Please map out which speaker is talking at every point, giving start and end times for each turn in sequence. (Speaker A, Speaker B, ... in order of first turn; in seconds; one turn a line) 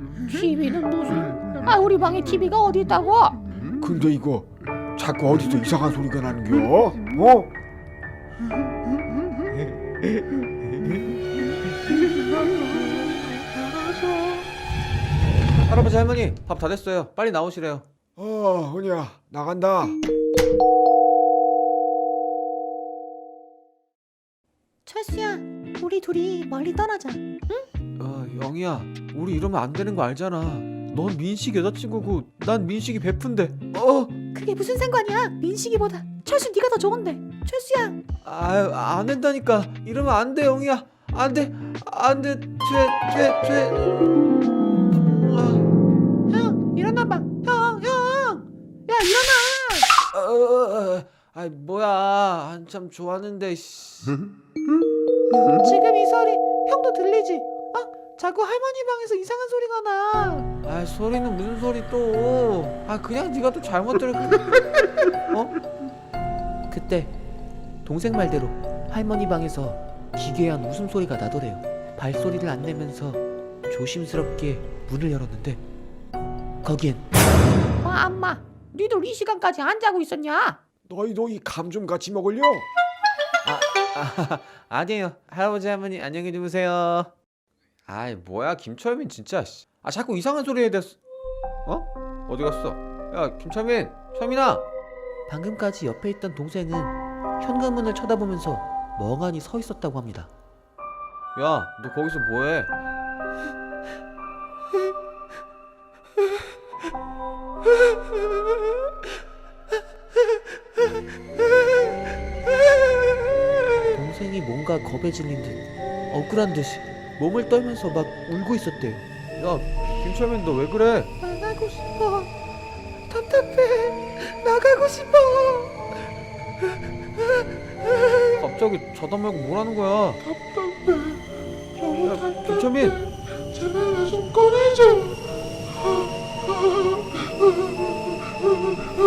Speaker A: 0.2-3.4
Speaker B: 3.8-7.5
Speaker C: 15.6-17.8
Speaker B: 18.1-20.0
Speaker A: 24.8-27.6
Speaker C: 28.0-34.1
Speaker A: 34.2-38.0
Speaker C: 38.2-44.1
Speaker C: 44.9-45.7
Speaker A: 46.3-49.9
Speaker C: 50.1-54.2
Speaker A: 55.5-60.5
Speaker C: 60.6-64.6
Speaker C: 66.7-67.1
Speaker C: 67.8-75.6
Speaker C: 76.6-77.0
Speaker A: 77.8-80.6
Speaker B: 80.8-82.7
Speaker C: 83.4-87.1
Speaker C: 87.9-90.9
Speaker C: 91.7-94.6
Speaker C: 95.3-100.3
Speaker C: 101.3-102.7
Speaker C: 113.8-121.1
Speaker A: 121.2-122.3
Speaker A: 123.1-125.8
Speaker C: 128.4-130.2
Speaker C: 132.0-133.0
Speaker A: 133.9-135.0